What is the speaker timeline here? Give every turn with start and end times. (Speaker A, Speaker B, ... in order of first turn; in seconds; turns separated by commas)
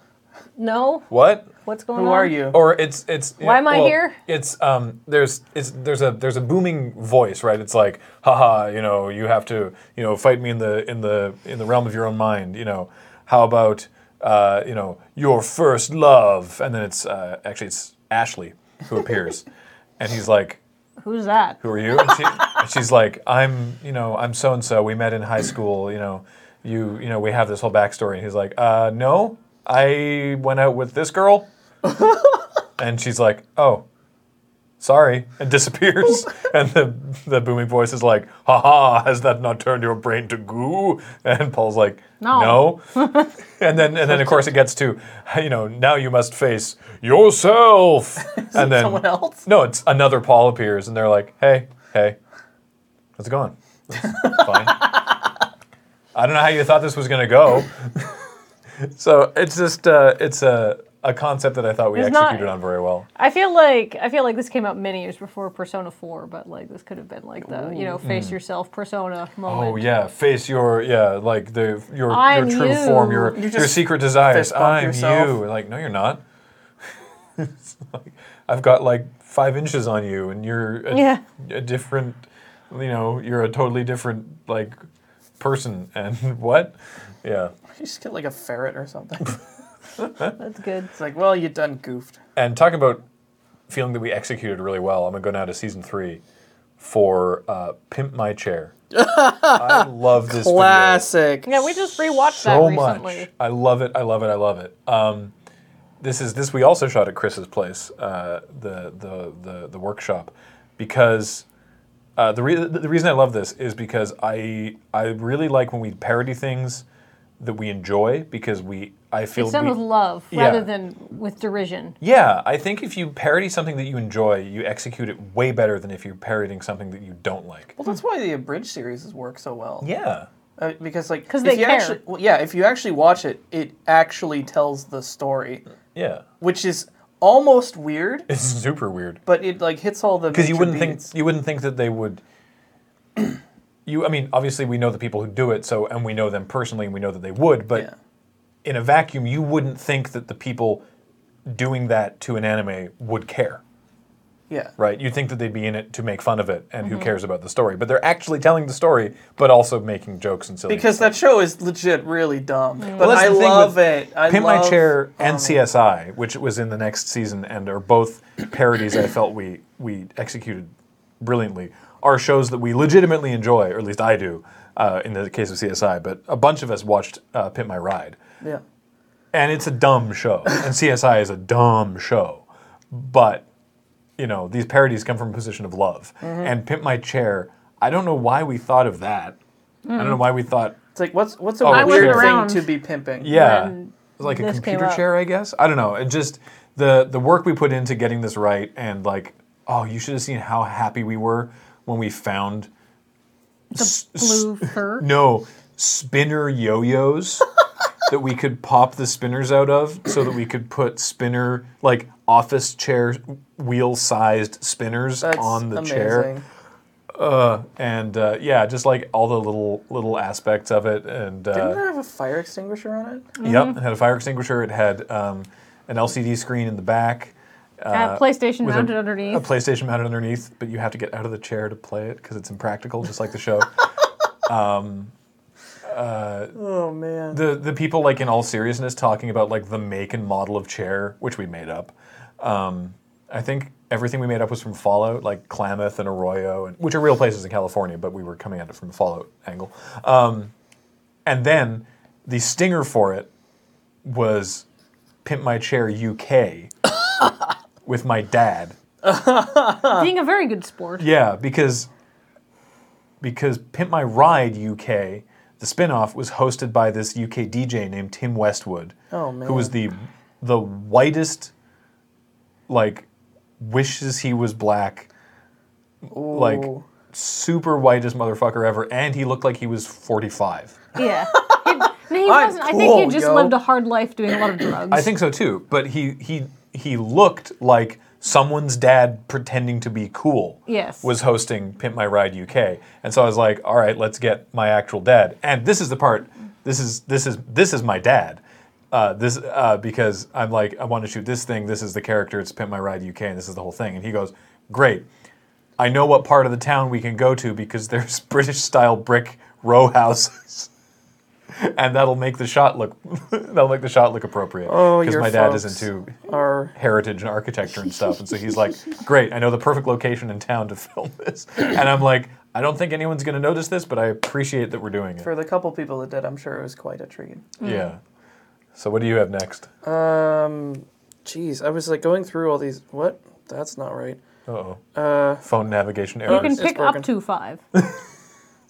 Speaker A: 0.6-1.1, Speaker B: 1.1-1.5, Speaker A: 1.6-2.5, Speaker C: 1.9-2.6, Speaker B: 2.5-19.5, Speaker A: 3.4-4.2, Speaker B: 20.0-20.6, Speaker A: 21.0-21.6, Speaker B: 21.6-31.5, Speaker C: 31.9-32.1, Speaker B: 32.8-33.9, Speaker B: 34.8-42.9, Speaker A: 42.2-43.3, Speaker B: 43.6-52.2, Speaker C: 44.0-44.5, Speaker C: 48.2-49.5, Speaker B: 53.2-55.0, Speaker C: 54.0-55.2, Speaker B: 56.1-58.2, Speaker B: 58.8-63.1, Speaker A: 62.0-62.5, Speaker A: 63.2-69.9, Speaker C: 67.4-68.0, Speaker B: 68.0-68.4, Speaker B: 69.5-76.2, Speaker A: 72.1-73.4, Speaker C: 73.3-75.4, Speaker B: 77.4-84.8, Speaker A: 80.9-81.2, Speaker B: 85.4-87.5, Speaker C: 87.7-89.4, Speaker B: 90.0-90.3, Speaker A: 90.4-90.9, Speaker C: 90.9-92.2, Speaker B: 92.4-93.0, Speaker B: 93.7-96.2, Speaker B: 96.8-98.7, Speaker C: 98.9-101.7, Speaker B: 99.5-101.1, Speaker A: 101.5-103.3, Speaker B: 102.2-105.3, Speaker B: 106.0-111.5, Speaker B: 112.2-116.8, Speaker B: 117.4-119.8, Speaker A: 119.4-122.0, Speaker B: 120.3-120.7, Speaker B: 122.0-127.8, Speaker C: 127.8-129.9, Speaker B: 129.8-130.3, Speaker C: 130.6-135.6, Speaker A: 131.3-132.0, Speaker B: 135.9-136.2, Speaker C: 136.4-138.3, Speaker B: 138.3-139.2, Speaker C: 139.3-141.1, Speaker B: 140.3-142.2, Speaker B: 143.9-147.9, Speaker B: 148.6-150.8, Speaker B: 151.5-153.6, Speaker B: 154.8-161.1, Speaker A: 156.8-157.1, Speaker C: 160.7-165.6, Speaker A: 162.8-163.1, Speaker B: 163.0-178.2, Speaker B: 179.3-183.5, Speaker B: 184.2-189.4, Speaker C: 186.2-186.5, Speaker A: 189.9-190.2, Speaker B: 189.9-190.8, Speaker C: 190.9-193.4, Speaker B: 191.6-192.4, Speaker A: 191.7-192.7, Speaker B: 193.2-202.7, Speaker A: 193.3-195.0, Speaker A: 203.7-205.1, Speaker B: 203.7-207.5, Speaker B: 208.1-216.3, Speaker C: 215.2-216.4, Speaker B: 217.2-221.8, Speaker C: 221.5-223.3, Speaker A: 223.4-223.8, Speaker B: 223.4-233.8, Speaker A: 227.9-229.5, Speaker B: 234.5-235.1, Speaker B: 235.9-236.6, Speaker C: 236.6-237.4, Speaker B: 237.3-250.5, Speaker B: 251.3-253.3, Speaker B: 254.0-254.7, Speaker B: 255.2-256.7, Speaker B: 257.9-258.8, Speaker C: 259.0-260.1, Speaker A: 259.9-261.1, Speaker B: 261.0-261.9, Speaker B: 263.2-271.5, Speaker C: 269.1-269.8, Speaker B: 272.7-273.1, Speaker B: 273.6-275.1, Speaker C: 276.1-276.9, Speaker B: 276.3-280.8, Speaker A: 281.0-285.1, Speaker C: 281.0-283.6, Speaker C: 284.3-284.6, Speaker B: 284.9-305.1, Speaker A: 290.7-291.1, Speaker B: 305.8-310.7, Speaker B: 311.6-325.3, Speaker C: 314.7-316.7, Speaker C: 325.2-327.6, Speaker B: 327.6-328.0, Speaker A: 327.6-327.9, Speaker B: 328.8-329.7, Speaker C: 329.8-334.2, Speaker B: 334.5-334.8, Speaker C: 334.9-335.4, Speaker B: 335.4-336.6, Speaker C: 336.3-337.1, Speaker A: 336.3-337.6